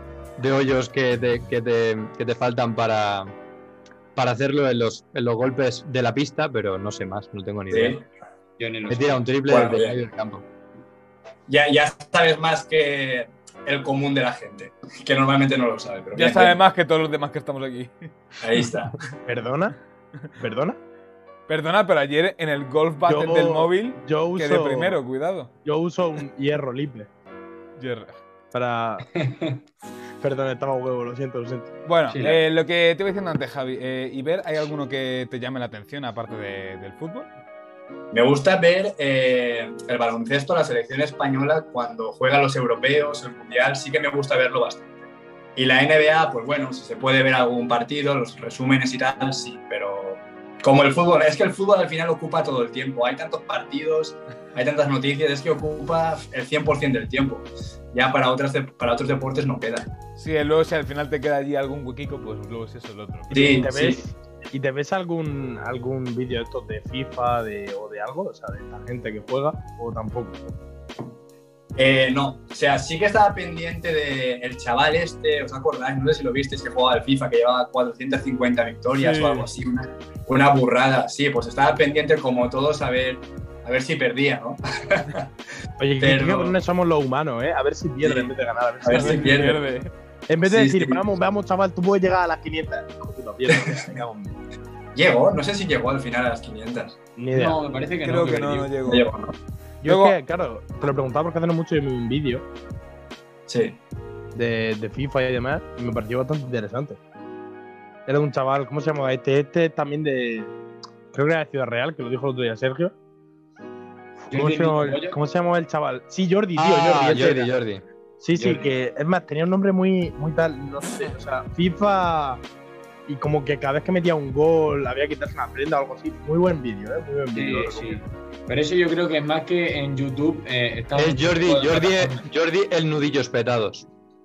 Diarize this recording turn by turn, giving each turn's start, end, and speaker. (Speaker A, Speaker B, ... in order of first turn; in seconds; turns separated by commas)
Speaker A: 0.4-3.3, Speaker A: 4.2-8.0, Speaker B: 7.7-8.0, Speaker C: 8.6-9.3, Speaker A: 8.9-10.4, Speaker B: 9.5-10.0, Speaker B: 11.5-16.6, Speaker D: 16.1-17.9, Speaker B: 18.4-19.1, Speaker E: 19.2-19.8, Speaker E: 20.4-20.8, Speaker D: 21.5-25.5, Speaker E: 23.1-25.0, Speaker E: 25.6-27.1, Speaker D: 27.8-28.2, Speaker E: 28.5-29.1, Speaker C: 29.2-29.6, Speaker E: 30.2-31.7, Speaker D: 31.9-37.3, Speaker C: 32.1-32.4, Speaker B: 38.1-45.0, Speaker B: 45.6-59.9, Speaker D: 60.2-63.7, Speaker B: 63.3-64.0, Speaker E: 63.3-70.5, Speaker B: 71.8-85.3, Speaker D: 79.0-79.5, Speaker E: 85.8-89.3, Speaker B: 86.0-86.6, Speaker B: 88.0-88.3, Speaker B: 88.8-89.6, Speaker D: 89.0-89.9, Speaker E: 90.3-94.3, Speaker B: 90.4-91.0, Speaker B: 93.5-94.0, Speaker B: 95.0-97.0, Speaker E: 97.2-97.6, Speaker C: 97.3-98.8, Speaker D: 98.0-99.1, Speaker B: 98.9-99.3, Speaker E: 99.8-102.5, Speaker D: 99.8-100.2, Speaker B: 103.5-103.8, Speaker E: 104.3-107.0, Speaker E: 108.1-110.5, Speaker E: 111.1-112.9, Speaker C: 114.3-115.2, Speaker E: 114.3-117.6, Speaker A: 116.6-117.8, Speaker E: 118.2-122.4, Speaker C: 118.3-118.7, Speaker E: 123.1-128.0, Speaker C: 127.3-132.3, Speaker A: 131.0-133.9